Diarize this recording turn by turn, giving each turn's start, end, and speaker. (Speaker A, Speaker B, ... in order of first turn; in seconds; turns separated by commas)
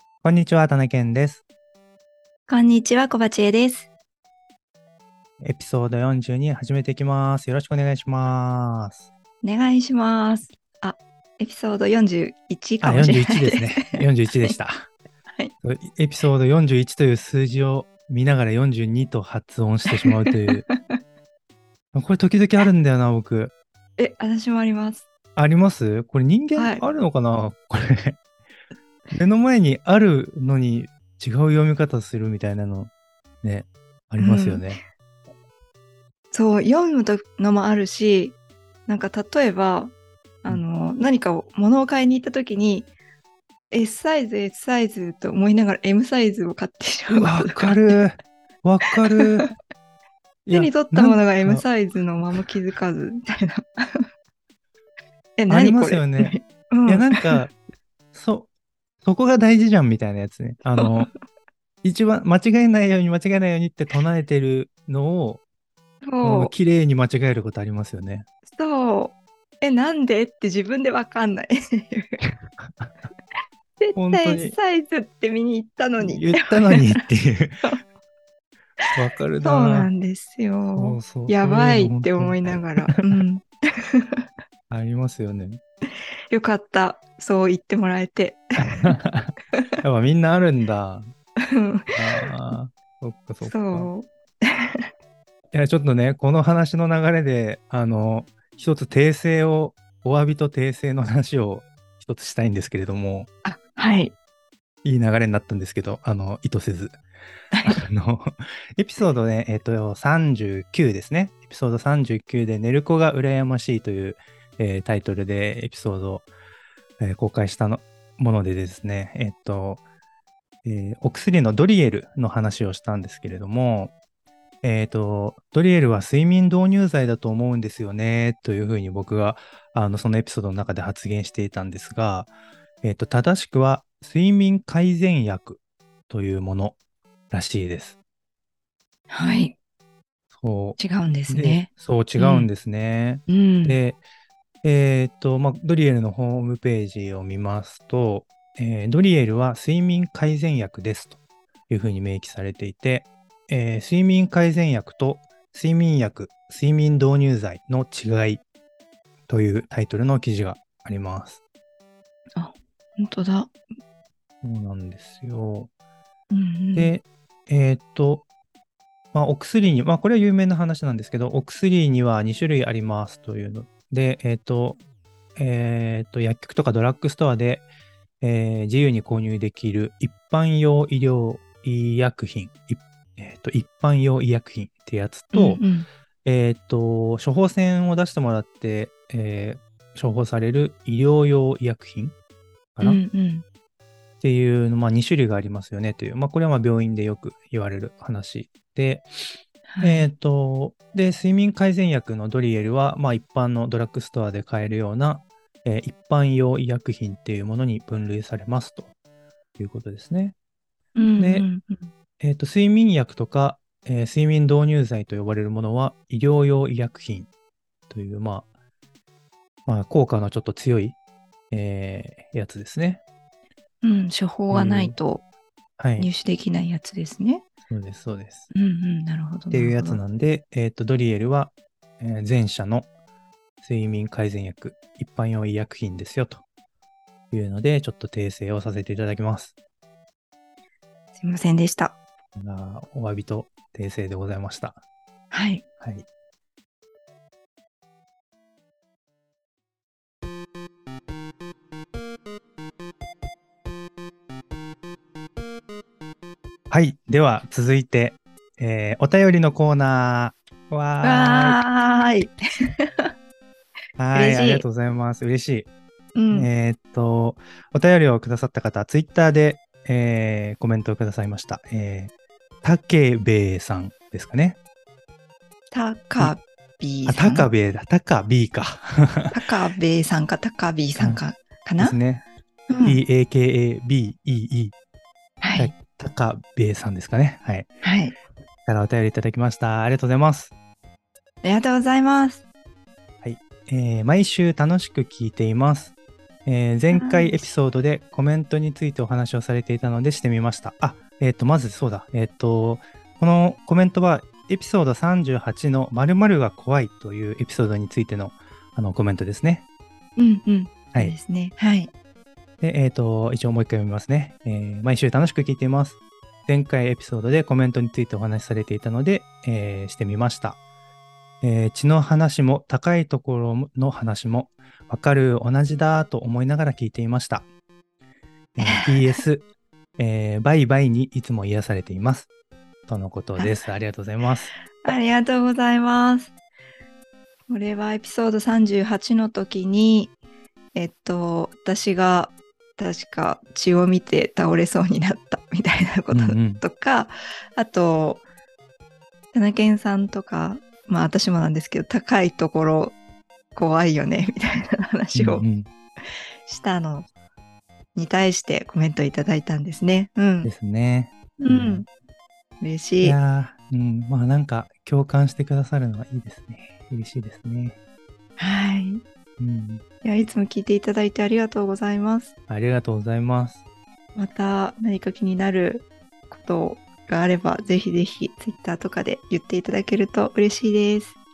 Speaker A: 0.2-1.4, Speaker B: 2.5-3.9, Speaker A: 5.4-9.0, Speaker B: 9.4-14.5, Speaker A: 12.8-14.9, Speaker A: 15.6-20.6, Speaker B: 19.9-21.0, Speaker A: 21.9-23.5, Speaker B: 24.0-25.0, Speaker A: 25.4-28.2, Speaker B: 26.5-26.8, Speaker A: 29.1-32.9, Speaker A: 33.4-34.8, Speaker B: 34.2-34.8, Speaker B: 36.3-42.9, Speaker B: 43.7-48.0, Speaker A: 47.1-49.5, Speaker B: 49.1-49.5, Speaker A: 50.5-51.6, Speaker B: 50.5-54.0, Speaker B: 55.4-57.5, Speaker A: 55.5-56.3, Speaker A: 56.9-57.5, Speaker A: 58.1-58.5, Speaker A: 59.0-61.1, Speaker B: 60.8-61.1, Speaker A: 61.8-65.4, Speaker B: 66.0-66.5, Speaker A: 66.2-68.2, Speaker B: 68.5-72.2, Speaker B: 73.8-77.0, Speaker A: 73.9-74.5, Speaker A: 76.0-77.7, Speaker A: 78.9-79.9, Speaker B: 79.4-84.2, Speaker A: 80.7-83.2, Speaker A: 84.7-85.6, Speaker B: 86.3-88.9, Speaker A: 88.6-91.0, Speaker B: 91.4-92.3, Speaker A: 91.9-93.9, Speaker B: 93.4-94.8, Speaker A: 95.5-103.3, Speaker B: 103.4-104.1, Speaker A: 104.8-107.0, Speaker A: 107.6-116.3, Speaker A: 117.0-119.8, Speaker A: 120.6-123.9, Speaker A: 124.6-132.3, Speaker A: 132.8-136.8, Speaker A: 137.3-137.9, Speaker B: 139.1-139.6, Speaker A: 140.4-144.0, Speaker B: 140.8-142.5, Speaker B: 143.3-143.8, Speaker A: 144.6-151.2, Speaker A: 151.7-158.4, Speaker A: 159.3-161.4, Speaker B: 162.3-163.5, Speaker A: 164.4-165.7, Speaker B: 166.3-166.9, Speaker A: 166.7-168.2, Speaker A: 169.1-174.8, Speaker A: 175.3-177.7, Speaker A: 178.2-185.6, Speaker B: 185.3-185.9, Speaker A: 186.2-192.1, Speaker A: 192.8-193.0, Speaker B: 192.8-193.4, Speaker A: 194.2-199.1, Speaker B: 199.7-200.1, Speaker A: 199.8-208.9, Speaker A: 209.6-210.3, Speaker B: 210.9-211.9, Speaker A: 211.2-211.5, Speaker A: 212.2-217.3, Speaker A: 217.9-218.4, Speaker A: 219.7-220.9, Speaker A: 221.5-223.0, Speaker B: 223.8-225.2, Speaker A: 224.5-224.9, Speaker A: 225.8-226.1, Speaker B: 226.0-227.4, Speaker A: 227.7-228.5, Speaker B: 228.5-230.0, Speaker A: 229.5-232.9, Speaker A: 233.6-236.4, Speaker A: 237.3-239.5, Speaker B: 241.2-242.0, Speaker A: 242.3-244.8, Speaker B: 245.3-245.6, Speaker A: 256.7-261.6, Speaker B: 261.0-263.1, Speaker A: 264.0-265.7, Speaker B: 264.1-264.6, Speaker B: 266.1-266.5, Speaker A: 266.3-272.1, Speaker A: 272.6-274.6, Speaker B: 275.7-277.5, Speaker A: 277.1-279.4, Speaker B: 279.3-282.0, Speaker A: 281.8-282.2, Speaker B: 282.7-283.0, Speaker A: 282.8-284.7, Speaker B: 285.4-285.7, Speaker A: 285.5-287.7, Speaker B: 287.8-288.1, Speaker A: 288.6-290.5, Speaker B: 291.4-292.4, Speaker A: 293.2-295.9, Speaker A: 296.4-309.6, Speaker B: 296.9-297.5, Speaker B: 310.2-311.9, Speaker A: 312.6-320.6, Speaker A: 321.4-327.4, Speaker A: 328.5-329.4, Speaker B: 328.6-329.2, Speaker A: 330.0-332.3, Speaker A: 332.9-334.5, Speaker B: 334.8-336.3, Speaker B: 337.5-340.1, Speaker B: 340.7-348.2, Speaker A: 346.1-346.6, Speaker B: 349.3-352.9, Speaker B: 353.5-355.4, Speaker A: 355.1-355.7, Speaker B: 356.4-357.1, Speaker B: 357.9-360.5, Speaker A: 360.4-361.8, Speaker B: 361.4-361.9, Speaker B: 362.6-363.2, Speaker A: 363.0-367.8, Speaker B: 368.4-369.0, Speaker A: 369.4-369.8, Speaker B: 370.0-372.3, Speaker A: 372.5-373.6, Speaker B: 374.1-381.2